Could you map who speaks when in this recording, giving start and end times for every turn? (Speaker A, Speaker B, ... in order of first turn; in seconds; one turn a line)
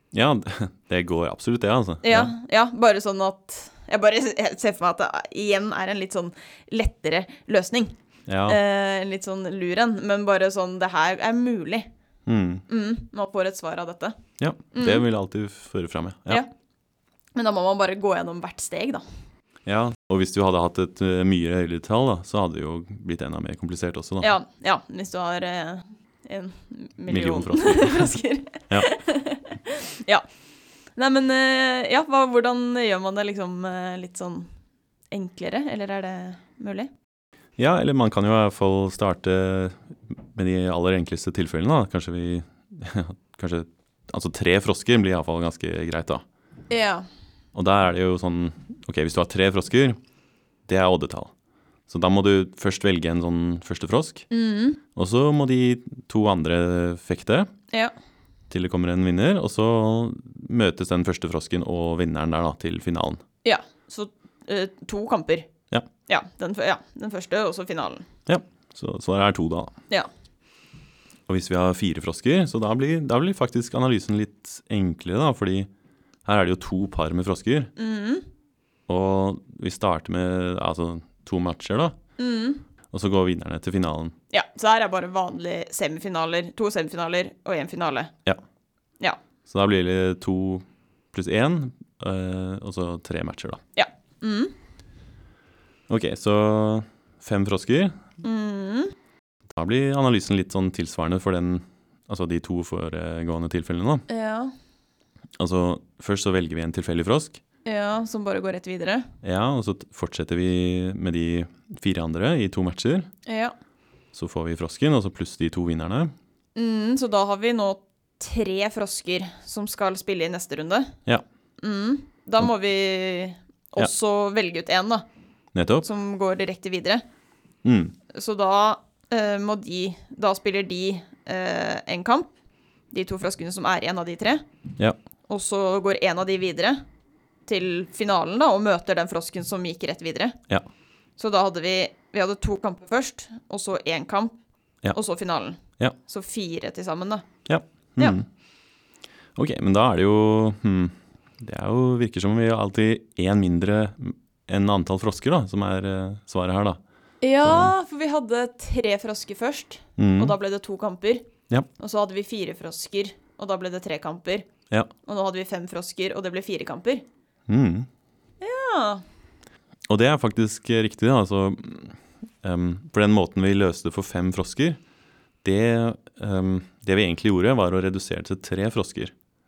Speaker A: 0.1-2.3
Speaker B: 2.0-7.9
Speaker A: 8.3-8.6
Speaker B: 8.5-11.9
Speaker A: 12.3-12.7
Speaker B: 12.7-14.2
Speaker A: 14.4-16.4
Speaker B: 14.7-15.1
Speaker B: 17.4-19.0
Speaker A: 19.7-24.3
Speaker B: 24.2-30.2
Speaker A: 27.1-28.2
Speaker B: 31.0-34.5
Speaker B: 35.1-36.9
Speaker A: 37.6-46.2
Speaker B: 46.7-47.1
Speaker A: 47.5-50.0
Speaker A: 50.7-51.3
Speaker A: 51.9-54.3
Speaker B: 54.3-54.8
Speaker A: 55.0-57.5
Speaker A: 58.5-63.2
Speaker B: 63.4-65.5
Speaker B: 66.1-68.1
Speaker A: 68.3-69.7
Speaker A: 71.3-75.7
Speaker A: 76.2-77.7
Speaker B: 77.8-78.3
Speaker A: 78.9-82.0
Speaker B: 82.2-82.7
Speaker A: 82.9-84.1
Speaker B: 84.3-88.1
Speaker A: 89.5-93.6
Speaker B: 93.8-94.5
Speaker A: 95.9-98.0
Speaker B: 98.2-98.9
Speaker A: 99.5-104.1
Speaker B: 104.1-104.5
Speaker A: 105.4-107.4
Speaker B: 107.7-109.1
Speaker A: 109.2-113.1
Speaker B: 113.3-113.5
Speaker A: 114.1-116.1
Speaker B: 116.5-120.9
Speaker B: 121.6-125.0
Speaker A: 125.5-125.9
Speaker B: 125.8-127.0
Speaker A: 127.6-128.0
Speaker B: 128.1-132.3
Speaker B: 132.9-134.4
Speaker B: 135.3-136.8
Speaker B: 137.5-140.4
Speaker B: 141.2-144.3
Speaker B: 144.9-147.3
Speaker A: 147.5-148.3
Speaker A: 149.4-156.8
Speaker B: 157.2-164.5
Speaker A: 157.4-157.7
Speaker A: 160.0-160.3
Speaker B: 165.0-167.0
Speaker A: 167.5-167.9
Speaker B: 168.4-169.0
Speaker A: 169.9-174.8
Speaker A: 175.4-179.1